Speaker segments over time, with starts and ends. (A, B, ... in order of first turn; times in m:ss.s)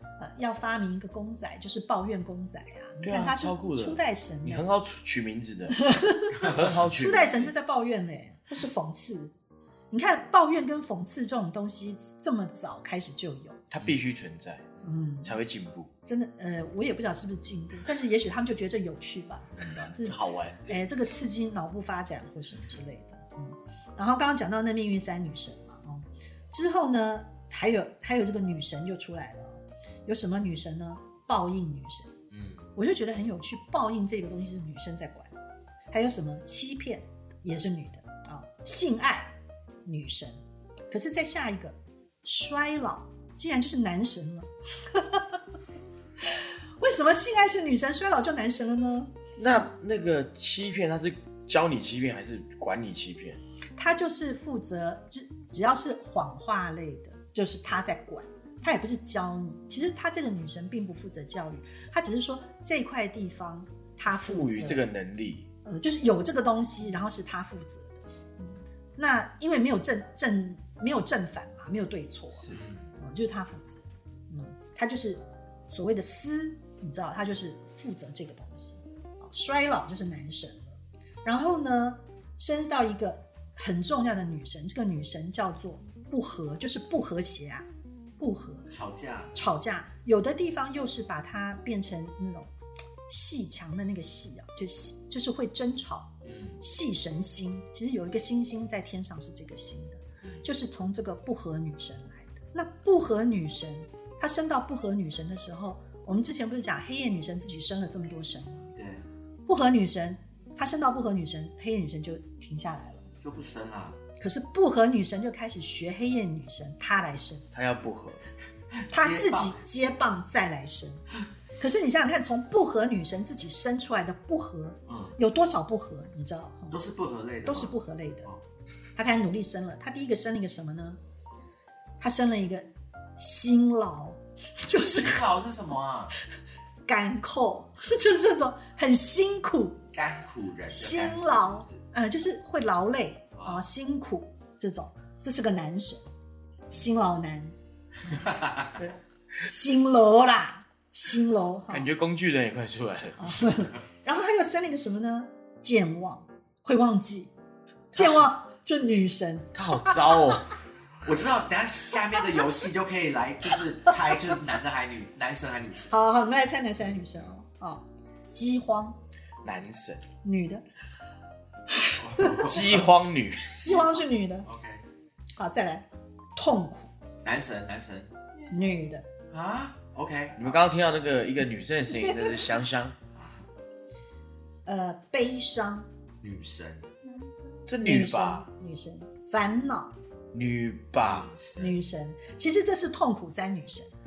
0:00.2-0:04.6 A
0:03.0-0:05.8 B
0:05.8-0:09.3 A
0:06.4-0:07.5 B
0:09.9-0:13.6 A
0:13.7-0:14.7 B
0:14.8-0:15.3 A
0:15.2-0:15.9 B
0:16.0-0:32.1 A
0:20.0-0:20.6 B
0:32.3-0:32.7 C
0:32.8-0:35.3 A
0:35.9-0:39.3 A
0:39.8-0:40.4 A
0:40.9-0:45.4 A
0:46.2-0:49.1 A
0:49.4-0:53.4 B
0:53.8-1:04.8 A
1:04.1-1:05.5 B
1:05.6-1:27.6 A
1:28.2-1:28.7 A
1:28.7-1:29.3 C
1:29.3-1:32.5 A
1:33.1-1:48.7 A
1:36.2-1:36.6 C
1:48.8-1:49.0 C
1:49.4-1:53.0 A
1:53.2-1:54.0 C
1:54.2-1:57.4 A
1:57.5-1:58.3 B
1:58.8-1:59.5 C
1:58.9-2:01.0 A
2:01.6-2:06.8 A
2:04.9-2:05.2 C
2:06.7-2:07.7 C
2:07.4-2:08.3 A
2:09.0-2:11.0 A
2:12.0-2:15.2 A
2:14.9-2:16.1 C
2:16.9-2:19.8 A
2:19.9-2:21.8 C
2:20.7-2:26.0 A
2:23.4-2:23.6 C
2:26.7-2:27.5 A
2:28.2-2:28.7 C
2:29.4-2:31.9 A
2:31.7-2:33.3 B
2:33.2-2:37.3 A
2:37.9-2:40.2 A
2:39.5-2:40.5 B
2:41.0-2:45.9 C
2:45.9-2:49.0 A
2:49.4-2:50.0 B
2:50.2-2:50.6 A
2:51.7-2:52.5 A
2:52.0-2:52.9 C
2:52.4-2:53.8 B
2:53.6-2:54.5 A
2:54.4-2:54.8 C
2:55.4-2:56.9 A
2:57.2-2:58.1 C
2:58.5-2:59.0 A
2:59.3-3:00.6 C
3:00.4-3:03.0 B
3:01.9-3:02.6 A
3:03.1-3:03.4 C
3:04.6-3:05.9 A
3:06.2-3:06.9 C
3:07.7-3:08.4 B
3:07.8-3:09.9 A
3:10.3-3:11.3 B
3:11.0-3:11.8 C
3:11.6-3:13.9 A